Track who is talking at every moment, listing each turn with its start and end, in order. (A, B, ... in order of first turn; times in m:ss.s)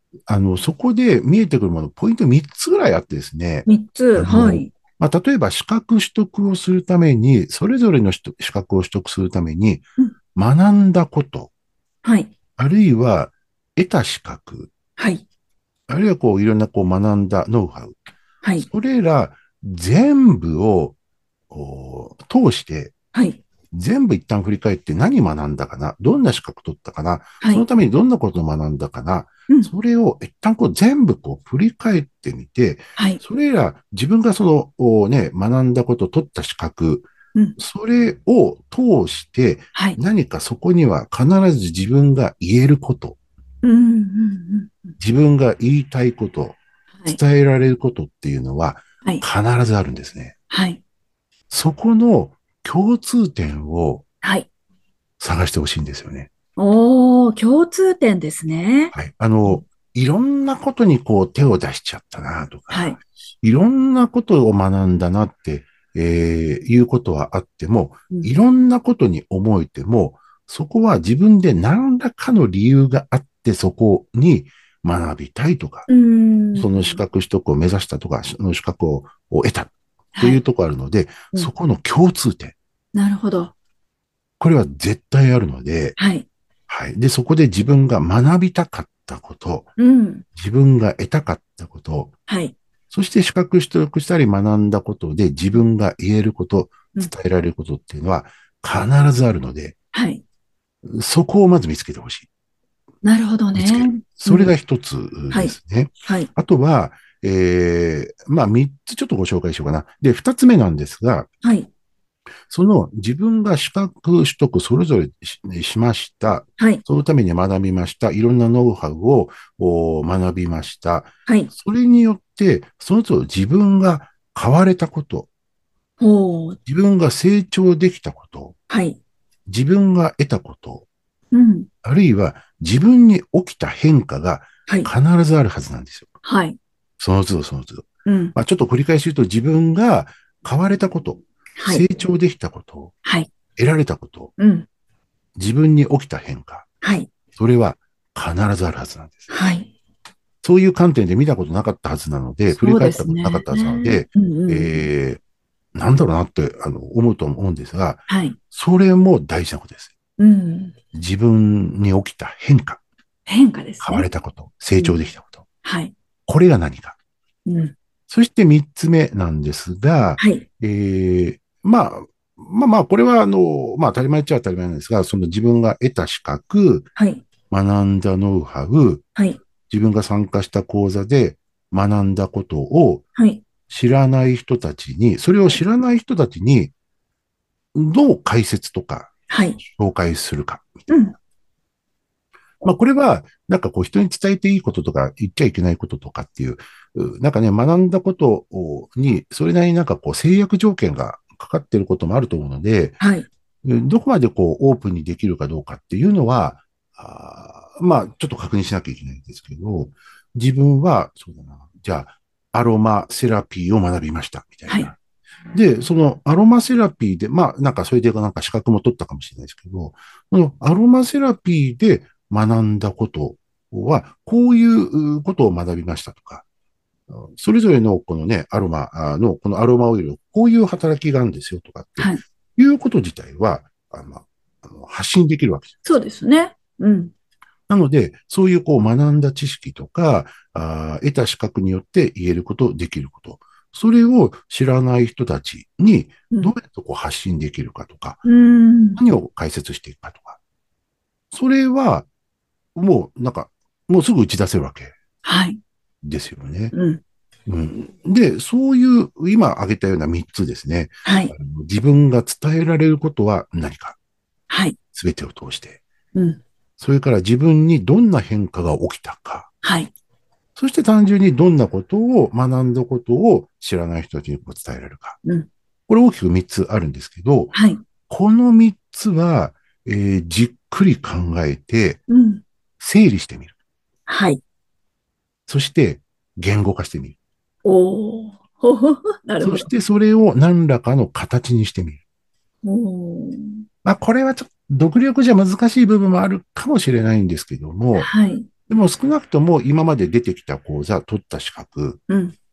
0:00.3-0:09.8 A
0:03.7-0:04.7 B
0:10.4-0:11.5 A
0:12.0-0:12.3 B
0:12.6-0:14.7 A
0:15.0-0:15.2 B
0:15.9-0:18.0 A
0:18.6-0:21.0 A
0:21.5-0:22.9 A
0:23.1-0:23.4 B
0:23.7-0:43.2 A
0:33.0-0:33.2 B
0:43.6-0:45.0 B
0:45.0-0:50.3 A
0:50.5-0:50.8 B
0:51.5-0:54.0 A
0:54.2-0:54.5 B
0:55.2-0:56.3 A
0:56.6-0:58.9 B
0:58.9-1:15.9 A
1:02.7-1:03.0 B
1:15.9-1:17.0 B
1:16.6-1:22.6 A
1:20.2-1:20.4 B
1:22.9-1:23.5 B
1:24.4-1:26.0 A
1:26.0-1:26.2 B
1:26.7-1:29.7 A
1:29.8-1:30.2 B
1:30.4-1:32.1 A
1:32.3-1:32.6 B
1:32.9-1:39.8 A
1:39.9-1:40.2 B
1:40.8-1:42.3 A
1:43.0-1:44.5 B
1:43.5-1:51.3 A
1:52.5-2:05.3 A
1:56.6-1:56.8 B
2:01.2-2:01.5 B
2:06.0-2:06.6 B
2:06.7-2:08.6 A
2:08.7-2:09.0 B
2:09.5-2:10.9 A
2:11.3-2:11.7 B
2:11.8-2:16.1 A
2:16.2-2:16.6 B
2:17.0-2:22.9 A
2:18.1-2:18.4 B
2:21.6-2:21.8 B
2:23.0-2:23.3 B
2:23.6-2:24.3 A
2:24.4-2:24.7 B
2:25.4-2:26.7 A
2:26.8-2:27.1 B
2:27.3-2:29.3 A
2:29.3-2:29.7 B
2:30.4-2:35.2 A
2:32.6-2:34.8 B
2:35.8-2:40.0 A
2:38.1-2:38.4 B
2:40.2-2:40.8 B
2:40.9-2:42.8 A
2:43.3-2:44.1 B
2:43.8-2:45.4 A
2:45.6-2:45.9 B
2:46.3-2:47.0 A
2:47.5-2:47.7 B
2:48.1-2:56.9 A
2:50.2-2:50.4 B
2:57.0-2:57.2 B
2:57.5-2:59.0 A
2:59.7-3:03.0 A
3:03.2-3:03.4 B
3:03.7-3:06.7 A
3:07.7-3:11.1 A
3:09.3-3:09.6 B
3:10.9-3:11.2 B
3:12.6-3:23.0 A
3:23.0-3:23.3 B
3:23.6-3:35.0 A
3:35.5-3:46.4 A
3:47.1-3:56.0 A
3:55.8-3:57.1 B
3:57.7-4:08.2 A
4:08.2-4:09.0 B
4:09.0-4:10.4 A
4:11.3-4:12.1 A
4:12.8-4:15.0 A
4:15.2-4:15.6 B
4:16.0-4:16.7 A
4:16.7-4:17.0 B
4:17.5-4:24.0 A
4:21.0-4:21.3 B
4:24.5-4:24.8 B
4:24.9-4:25.8 A
4:26.1-4:26.4 B
4:26.8-4:29.5 A
4:29.6-4:29.9 B
4:30.6-4:35.2 A
4:35.9-4:37.6 A
4:37.5-4:37.8 B
4:38.1-4:42.0 A
4:42.1-4:42.4 B
4:42.8-4:43.5 A
4:44.1-4:44.4 B
4:45.5-4:47.1 A
4:47.6-4:49.7 B
4:49.4-4:52.0 A
4:52.6-4:53.6 B
4:53.8-4:58.1 A
4:58.0-4:58.5 B
4:58.7-5:02.0 A
5:02.1-5:02.4 B